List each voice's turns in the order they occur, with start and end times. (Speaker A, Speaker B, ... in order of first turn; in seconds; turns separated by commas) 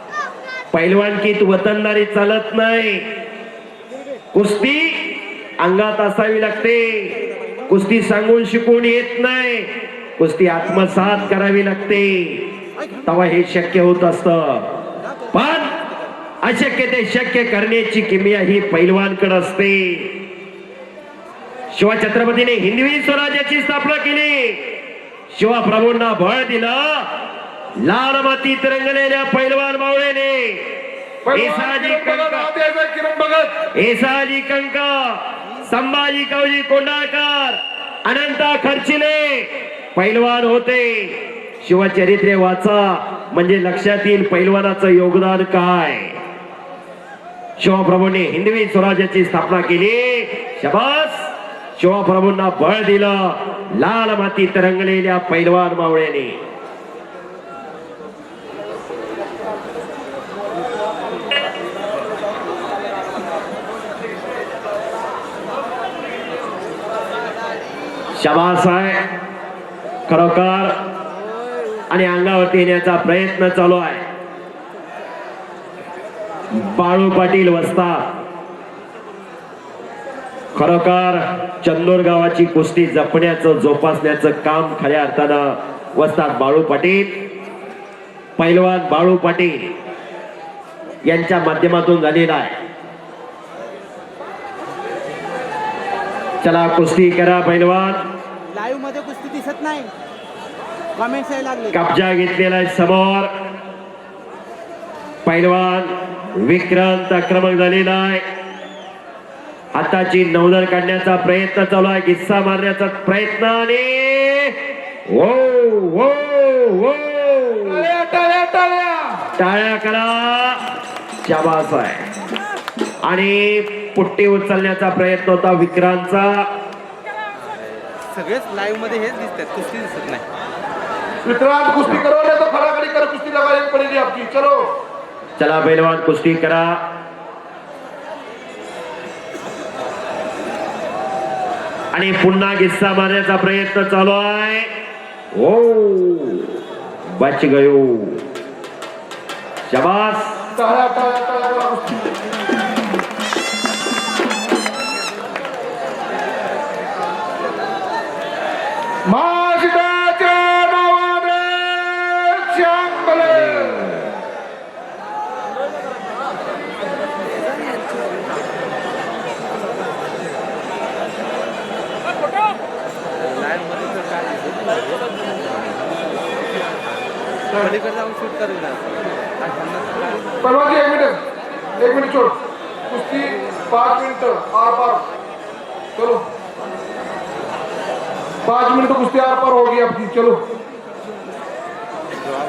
Speaker A: 0.7-3.1, Speaker A: 4.3-14.7, Speaker A: 15.3-15.8, Speaker A: 16.4-20.3, Speaker A: 21.7-24.7, Speaker A: 25.3-27.1, Speaker A: 27.8-30.7, Speaker B: 31.3-33.6, Speaker A: 31.3-32.5, Speaker A: 33.7-46.2, Speaker A: 47.6-56.4, Speaker A: 68.2-69.0, Speaker A: 70.1-70.8, Speaker A: 71.9-74.0, Speaker A: 76.5-78.1, Speaker A: 80.5-87.1, Speaker A: 88.4-89.7, Speaker A: 91.1-92.6, Speaker A: 96.4-98.0, Speaker C: 98.6-99.9, Speaker C: 101.0-101.6, Speaker A: 101.7-103.3, Speaker A: 105.3-108.2, Speaker A: 109.7-114.5, Speaker A: 115.1-117.9, Speaker B: 117.6-119.2, Speaker A: 119.4-120.6, Speaker A: 121.2-122.1, Speaker A: 123.0-126.5, Speaker C: 128.2-130.2, Speaker B: 131.2-134.7, Speaker A: 135.4-136.8, Speaker A: 141.9-144.7, Speaker A: 145.3-146.5, Speaker A: 147.2-148.2, Speaker A: 149.7-150.4, Speaker B: 150.6-152.1, Speaker B: 159.1-164.1, Speaker C: 173.7-174.3, Speaker B: 177.5-177.8, Speaker C: 177.8-178.9, Speaker B: 180.4-181.2, Speaker B: 181.8-182.4, Speaker B: 182.9-185.1, Speaker B: 186.0-186.2, Speaker B: 188.4-190.4